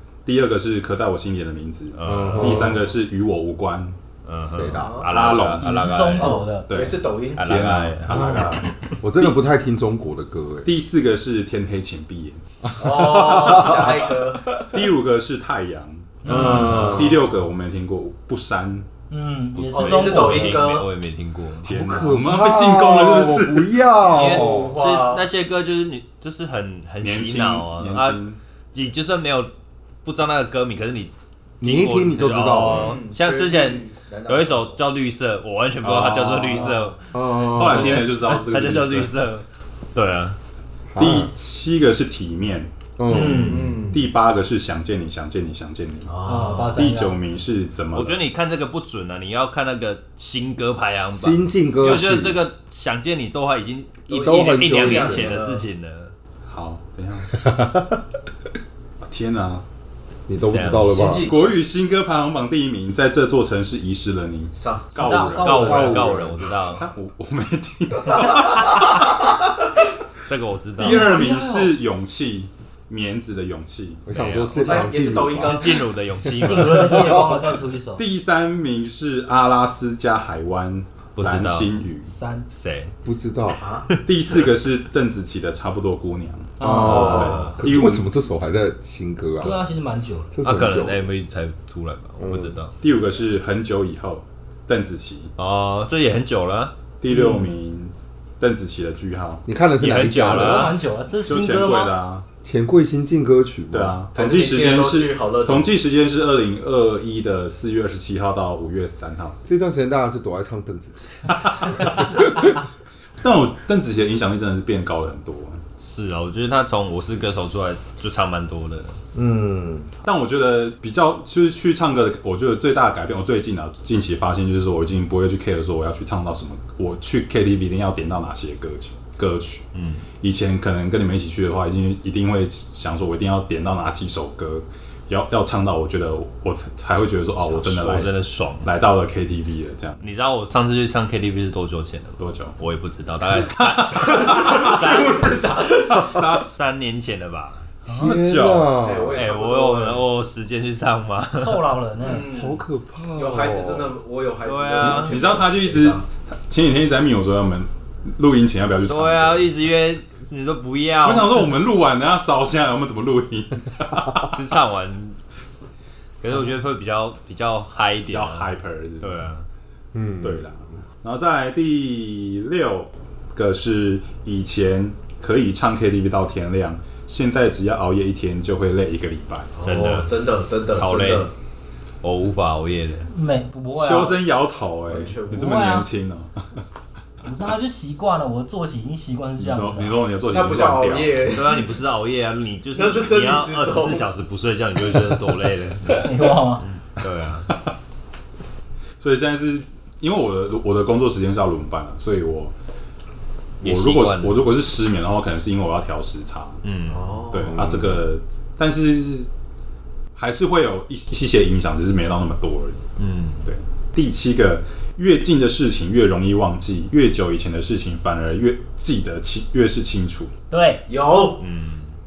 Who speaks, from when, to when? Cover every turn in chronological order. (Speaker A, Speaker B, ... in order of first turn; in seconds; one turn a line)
Speaker A: 0.2-4.0
Speaker B: 1.9-2.7
Speaker C: 2.0-2.8
Speaker B: 4.2-6.4
Speaker C: 4.5-5.0
Speaker D: 4.8-5.1
Speaker A: 5.1-8.7
Speaker E: 5.6-6.7
Speaker D: 6.2-7.5
Speaker B: 7.3-8.5
Speaker C: 8.1-10.7
Speaker A: 10.6-12.4
Speaker C: 12.6-14.7
Speaker D: 12.8-14.5
Speaker A: 14.7-18.9
Speaker E: 16.2-16.7
Speaker B: 16.3-17.1
Speaker C: 16.3-17.1
Speaker D: 16.3-17.1
Speaker E: 19.1-20.6
Speaker B: 19.6-21.7
Speaker D: 19.7-20.9
Speaker A: 21.6-23.8
Speaker C: 21.6-24.7
Speaker B: 24.1-28.2
Speaker D: 24.1-25.3
Speaker A: 27.0-28.4
Speaker B: 28.7-29.5
Speaker B: 30.0-40.4
Speaker C: 31.6-33.0
Speaker D: 32.5-34.8
Speaker A: 35.8-36.8
Speaker C: 37.1-38.1
Speaker A: 37.4-39.1
Speaker C: 40.9-41.3
Speaker A: 41.0-42.7
Speaker C: 43.0-43.6
Speaker E: 43.1-43.8
Speaker B: 43.1-43.7
Speaker D: 43.4-44.0
Speaker A: 43.9-46.1
Speaker D: 46.1-46.9
Speaker E: 46.2-47.2
Speaker A: 46.7-48.2
Speaker B: 47.9-56.1
Speaker C: 51.1-52.4
Speaker D: 54.1-55.6
Speaker C: 54.1-55.3
Speaker A: 56.5-57.5
Speaker C: 57.4-57.7
Speaker A: 59.0-59.6
Speaker C: 60.3-61.3
Speaker B: 60.5-61.1
Speaker D: 60.8-61.5
Speaker A: 61.2-66.1
Speaker D: 64.5-64.9
Speaker E: 64.9-66.1
Speaker B: 65.4-66.8
Speaker C: 65.6-66.4
Speaker A: 66.7-69.1
Speaker B: 70.3-71.2
Speaker A: 70.8-74.0
Speaker D: 70.8-71.7
Speaker C: 74.0-75.7
Speaker B: 74.1-77.2
Speaker D: 74.6-75.8
Speaker E: 76.4-78.0
Speaker C: 76.9-77.4
Speaker A: 78.0-82.1
Speaker B: 81.2-81.7
Speaker E: 82.0-82.5
Speaker B: 82.5-82.9
Speaker C: 83.0-83.6
Speaker D: 83.6-83.9
Speaker A: 84.0-88.0
Speaker E: 86.6-87.2
Speaker C: 86.6-89.6
Speaker B: 86.8-87.5
Speaker D: 86.8-87.5
Speaker E: 89.4-90.3
Speaker C: 90.3-91.1
Speaker B: 90.4-92.7
Speaker C: 92.2-92.5
Speaker A: 92.8-95.3
Speaker B: 95.4-96.7
Speaker A: 97.0-99.4
Speaker E: 97.1-97.4
Speaker C: 99.5-100.8
Speaker B: 99.8-100.8
Speaker E: 100.3-101.9
Speaker A: 101.2-102.2
Speaker C: 102.4-104.0
Speaker A: 103.7-109.4
Speaker D: 104.1-105.7
Speaker C: 109.4-112.5
Speaker A: 111.3-112.3
Speaker A: 113.2-115.6
Speaker B: 115.8-119.0
Speaker C: 119.1-119.9
Speaker A: 120.0-129.6
Speaker B: 129.7-130.1
Speaker A: 130.2-140.0
Speaker B: 137.4-138.7
Speaker B: 140.0-145.4
Speaker A: 142.2-142.5
Speaker A: 143.6-144.8
Speaker D: 144.0-146.3
Speaker A: 145.8-146.4
Speaker B: 146.1-147.7
Speaker C: 147.8-149.2
Speaker A: 147.9-148.7
Speaker D: 148.8-150.0
Speaker B: 149.1-151.6
Speaker E: 151.3-152.3
Speaker D: 152.0-152.6
Speaker C: 152.3-153.9
Speaker D: 153.2-156.0
Speaker B: 154.4-155.2
Speaker A: 154.8-159.5
Speaker B: 158.9-161.5
Speaker A: 161.0-164.4
Speaker B: 164.3-165.2
Speaker B: 166.2-169.4
Speaker A: 168.1-169.2
Speaker C: 169.9-170.5
Speaker A: 170.2-179.5
Speaker D: 179.6-181.3
Speaker B: 179.6-180.1
Speaker B: 180.7-181.3
Speaker B: 182.0-183.1
Speaker E: 183.1-184.2
Speaker A: 183.7-186.6
Speaker D: 184.9-185.5
Speaker E: 185.3-185.9
Speaker E: 187.2-190.0
Speaker A: 189.4-191.3
Speaker D: 190.3-191.7
Speaker B: 191.3-197.5
Speaker D: 192.7-194.1
Speaker E: 196.0-196.7
Speaker A: 199.0-202.5
Speaker B: 203.6-204.4
Speaker A: 203.6-206.6
Speaker B: 206.6-207.0
Speaker D: 206.9-207.6
Speaker A: 207.3-209.3
Speaker C: 207.5-208.0
Speaker A: 210.2-212.8
Speaker B: 213.0-213.5
Speaker A: 213.4-220.3
Speaker E: 220.5-220.8
Speaker D: 220.9-221.4
Speaker B: 221.4-222.0